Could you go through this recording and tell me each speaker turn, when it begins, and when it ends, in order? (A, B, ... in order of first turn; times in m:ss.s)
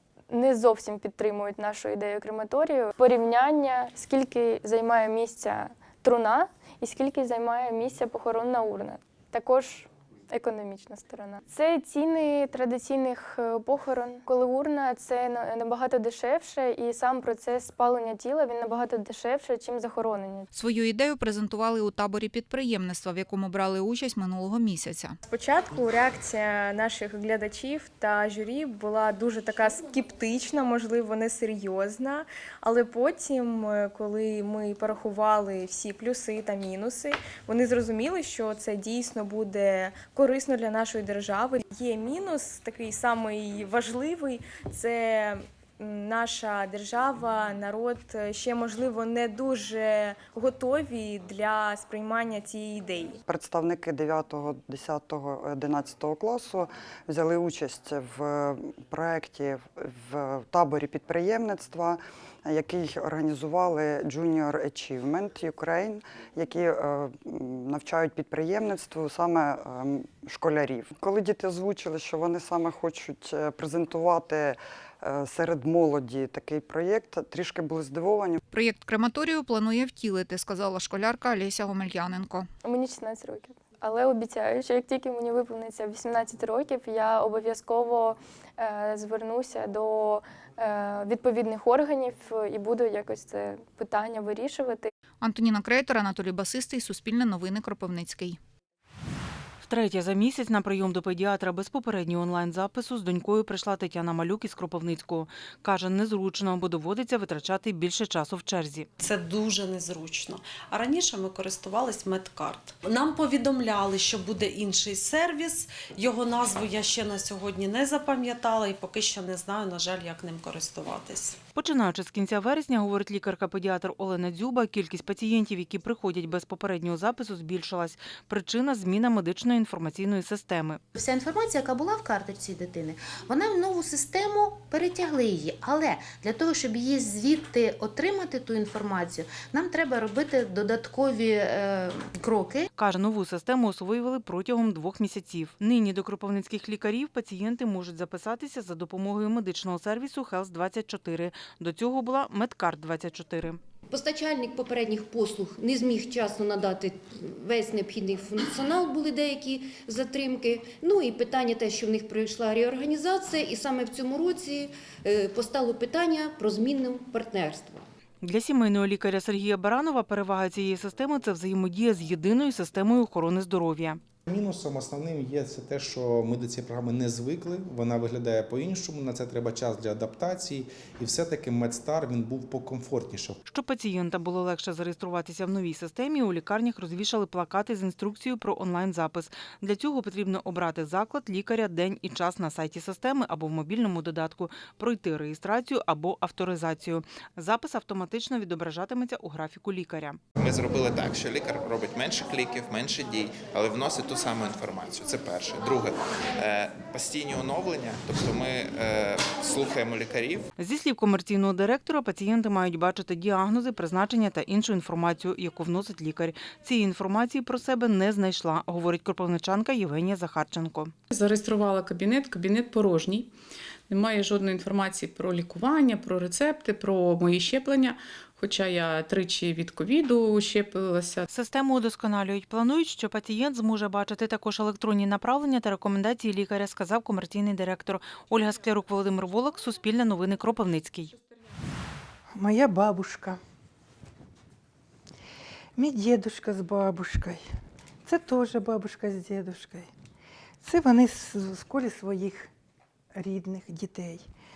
0:00.3-0:20.5 A
0:20.5-0:25.2 B
0:25.3-0:53.1 C
0:53.3-1:18.4 D
1:18.5-1:22.5 B
1:22.6-1:34.9 A
1:35.2-1:38.4 B
1:39.6-1:48.9 E
1:49.8-1:50.2 F
1:51.1-1:51.7 F
1:53.1-1:53.8 F
1:54.5-1:55.6 F
1:56.5-1:57.9 F
2:01.5-2:10.8 E
2:10.9-2:22.7 G
2:22.8-2:33.6 E
2:33.9-2:47.8 H
2:48.2-2:54.0 E
2:54.3-3:03.4 I
3:03.5-3:20.2 E
3:20.4-3:30.5 J
3:30.6-3:40.9 E
3:41.1-3:43.3 K
3:43.9-3:51.2 K
3:51.3-4:01.1 E
4:02.3-4:03.4 L
4:05.8-4:07.4 L
4:08.0-4:09.9 L
4:10.6-4:12.5 L
4:13.1-4:14.2 L